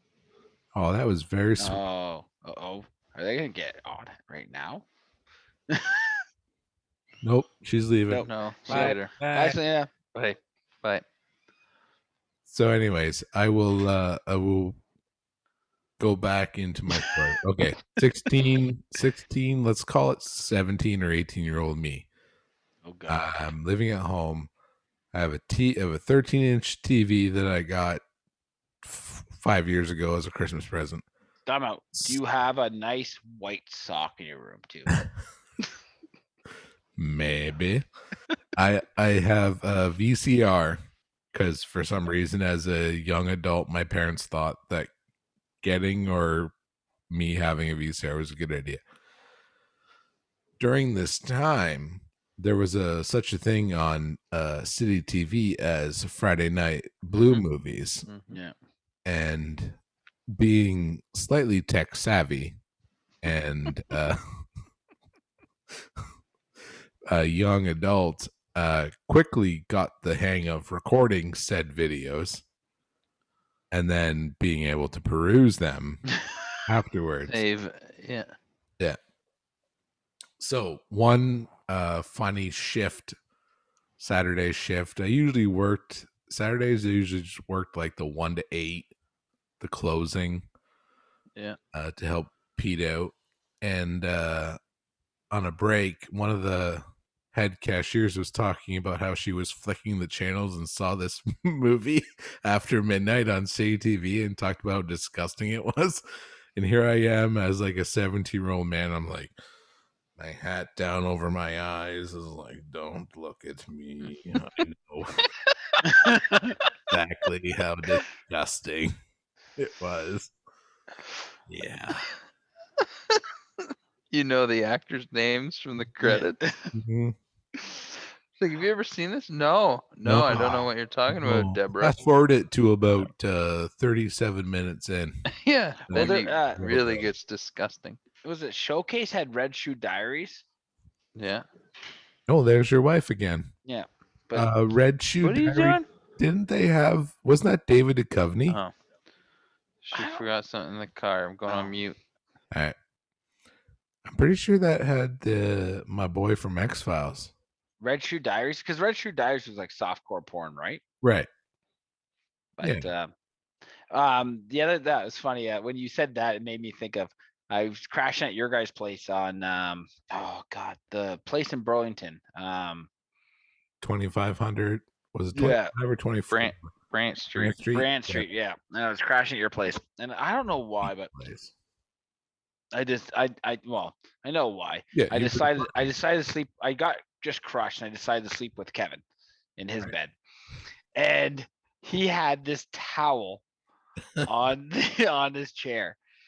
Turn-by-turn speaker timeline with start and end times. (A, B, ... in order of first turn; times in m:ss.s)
0:00.7-0:01.8 A
0:01.6-0:04.8 B
0:05.7-0:06.1 B
0:07.2-0:09.6 A
0:08.1-0:09.9 B
0:08.2-0:09.1 C
0:10.1-0:11.0 C
0:12.4-0:14.8 A
0:16.0-0:22.1 A
0:22.8-0:23.4 B
0:23.1-0:24.5 A
0:25.1-0:28.0 A
0:28.8-0:31.0 A
0:31.4-0:35.0 B
0:37.0-0:37.8 A
0:38.6-0:40.8 A
0:41.3-0:44.9 A
0:45.6-0:46.5 A
0:47.1-0:48.8 A
0:50.6-0:58.1 A
0:58.1-0:58.4 C
0:59.0-0:59.8 A
1:00.3-1:02.6 A
1:03.2-1:04.4 A
1:07.1-1:12.4 A
1:13.7-1:16.1 A
1:16.6-1:17.4 A
1:17.3-1:18.3 C
1:20.4-1:23.2 A
1:24.0-1:28.9 A
1:29.6-1:30.5 A
1:31.7-1:34.6 A
1:35.3-1:46.0 A
1:46.5-1:49.3 A
1:50.2-1:55.3 A
1:55.8-1:56.6 B
1:56.9-1:59.0 A
1:59.6-2:00.3 A
2:01.5-2:02.0 A
2:04.1-2:06.4 C
2:06.0-2:06.7 B
2:06.7-2:07.2 A
2:08.4-2:12.0 C
2:10.0-2:15.2 A
2:15.3-2:18.0 C
2:15.9-2:17.1 A
2:15.9-2:16.6 B
2:18.2-2:20.4 B
2:21.2-2:21.4 C
2:22.3-2:23.5 A
2:23.6-2:24.5 B
2:24.3-2:28.6 A
2:25.2-2:25.8 C
2:28.5-2:28.7 C
2:29.8-2:32.0 C
2:29.9-2:30.2 B
2:31.5-2:31.7 B
2:34.0-2:37.3 A
2:37.8-2:40.8 B
2:41.0-2:41.3 A
2:42.6-2:43.1 B
2:42.6-2:42.9 A
2:43.9-2:52.9 B
2:53.8-2:56.6 A
2:55.3-2:55.7 B
2:56.3-2:57.6 C
2:57.3-2:58.2 A
2:57.7-3:01.1 B
3:01.1-3:01.5 A
3:02.7-3:09.0 B
3:04.9-3:05.8 A
3:09.6-3:10.1 B
3:10.9-3:13.4 B
3:14.2-3:16.0 B